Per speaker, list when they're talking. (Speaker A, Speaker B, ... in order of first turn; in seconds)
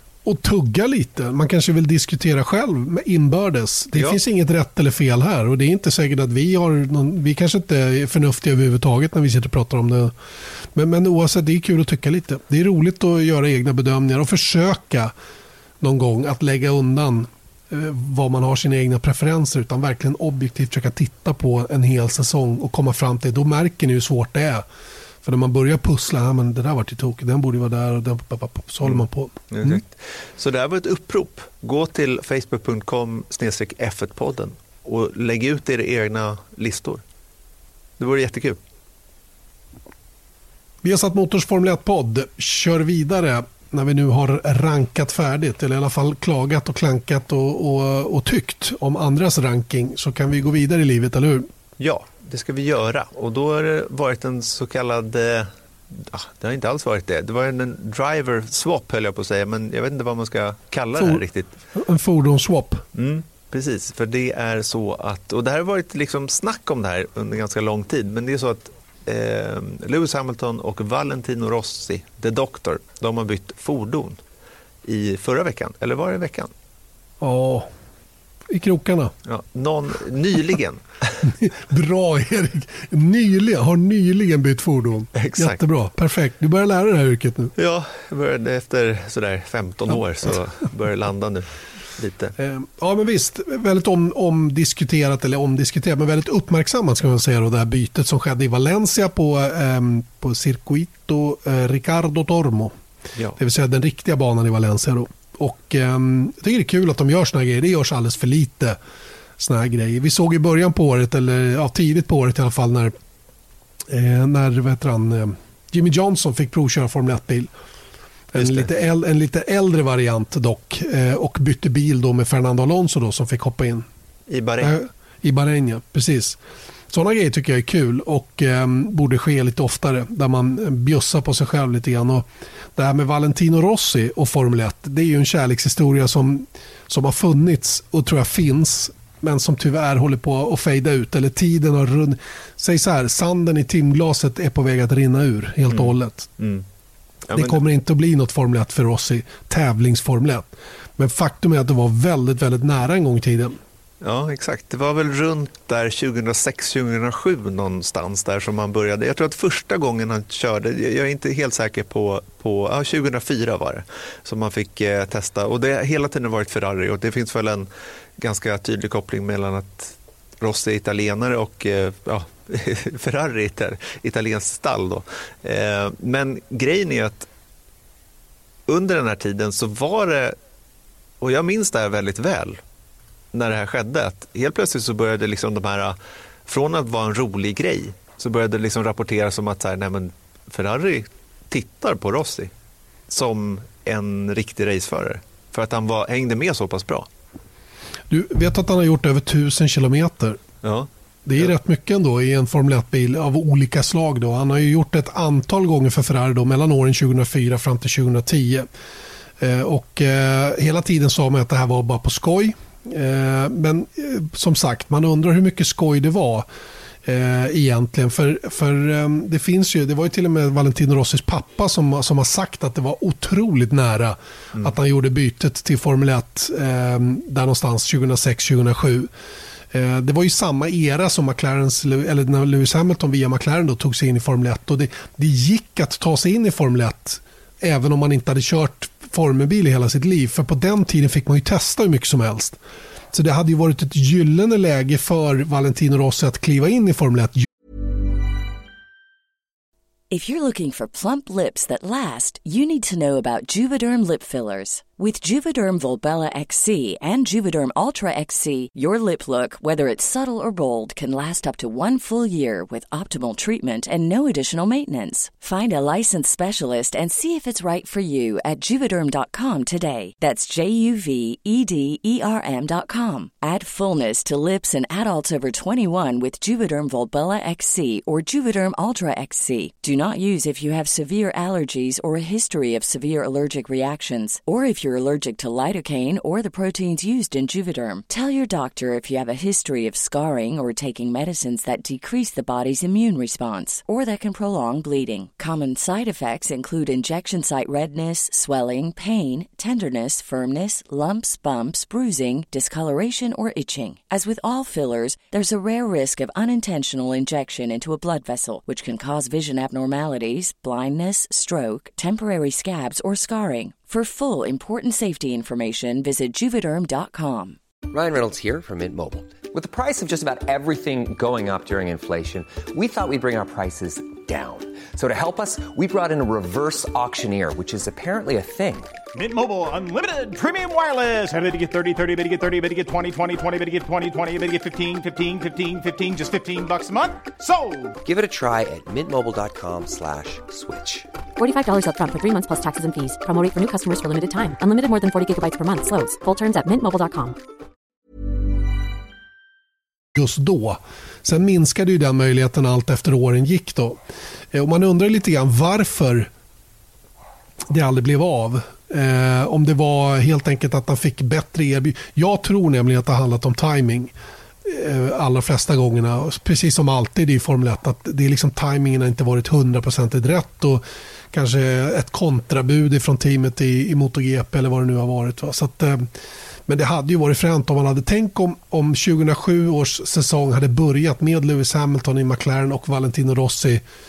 Speaker A: 0.2-10.1, 10.7-15.1, 15.8-24.6, 25.2-29.8, 40.8-51.5, 60.9-62.8, 77.2-77.7, 78.5-79.1, 81.2-87.5, 92.4-102.7, 103.4-108.8, 109.4-112.9, 113.9-117.5, 118.3-123.8, 124.6-126.4, 126.9-132.2, 132.8-146.3, 147.3-153.6, 198.1-200.4, 201.2-208.7, 209.4-216.4, 217.0-229.1, 229.7-242.6, 243.1-247.4, 350.1-354.0, 354.5-356.3, 357.7-364.1, 364.6-376.1, 376.7-383.8
Speaker B: 28.8-37.0, 38.0-38.6, 51.8-61.5, 62.9-74.2, 74.8-76.5, 79.2-81.3, 85.1-85.6, 87.5-92.3, 118.3-118.7, 124.3-124.7, 145.7-146.7, 147.3-147.6, 154.0-177.3, 178.7-180.4, 181.2-182.6, 183.3-192.5, 193.1-197.1, 200.6-201.5
Speaker C: 250.1-317.6
Speaker D: 317.9-329.0, 338.0-341.1
Speaker E: 329.1-337.9
Speaker F: 341.4-347.4